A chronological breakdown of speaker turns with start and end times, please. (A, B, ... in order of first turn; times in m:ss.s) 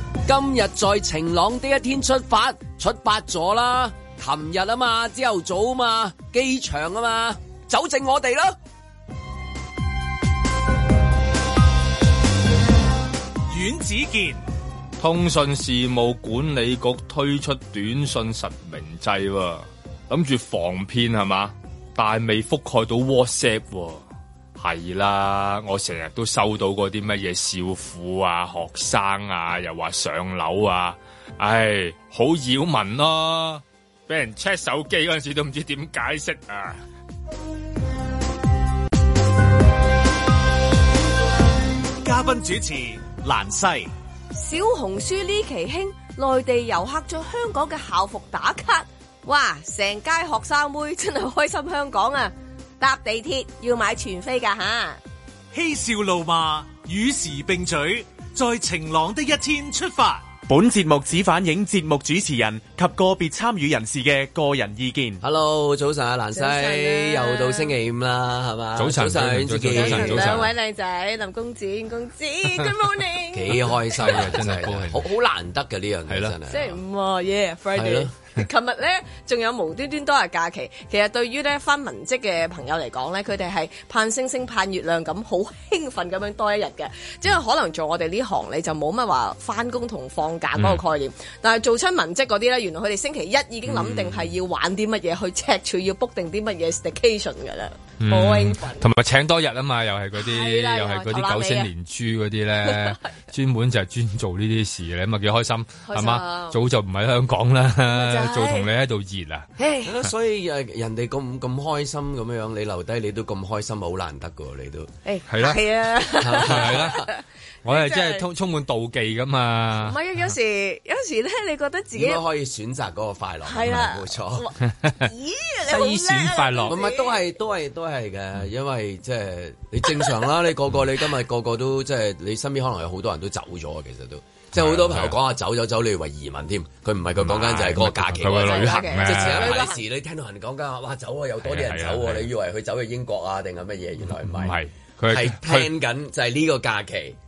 0:00.2-0:08.6 A
0:13.5-0:14.4 B
0:15.0-0:24.0 C
0:24.6-0:36.8 C
0:42.0-0:43.9 B
0:44.3-0:55.0 D
0:55.5-1:00.3 B
1:00.5-1:05.2 E
1:05.2-1:10.5 A
1:06.3-1:07.7 D
1:08.8-1:10.5 C
1:09.7-1:14.2 D
1:13.3-1:16.8 A
1:14.0-1:15.0 C
1:16.1-1:16.3 C
1:16.5-1:38.9 D
1:17.7-1:18.1 A
1:30.6-1:30.8 C
1:33.6-1:34.3 A
1:38.0-1:49.5 C
1:40.2-1:41.7 D
1:42.6-1:43.0 D
1:45.8-1:46.6 D
1:47.9-1:48.7 D
1:49.6-1:49.9 D
1:49.8-1:54.9 A
1:55.0-1:57.2 D
1:55.3-1:55.6 C
1:56.2-1:57.0 A
1:56.4-1:57.0 C
1:57.6-2:00.0 C
1:57.7-1:58.2 D
1:59.8-2:02.2 D
2:01.9-2:04.4 A
2:03.4-2:07.1 D
2:05.7-2:06.8 C
2:06.7-2:27.2 A
2:14.5-2:15.2 C
2:17.2-2:19.6 C
2:18.3-2:19.8 D
2:21.4-2:22.3 C
2:24.2-2:25.7 C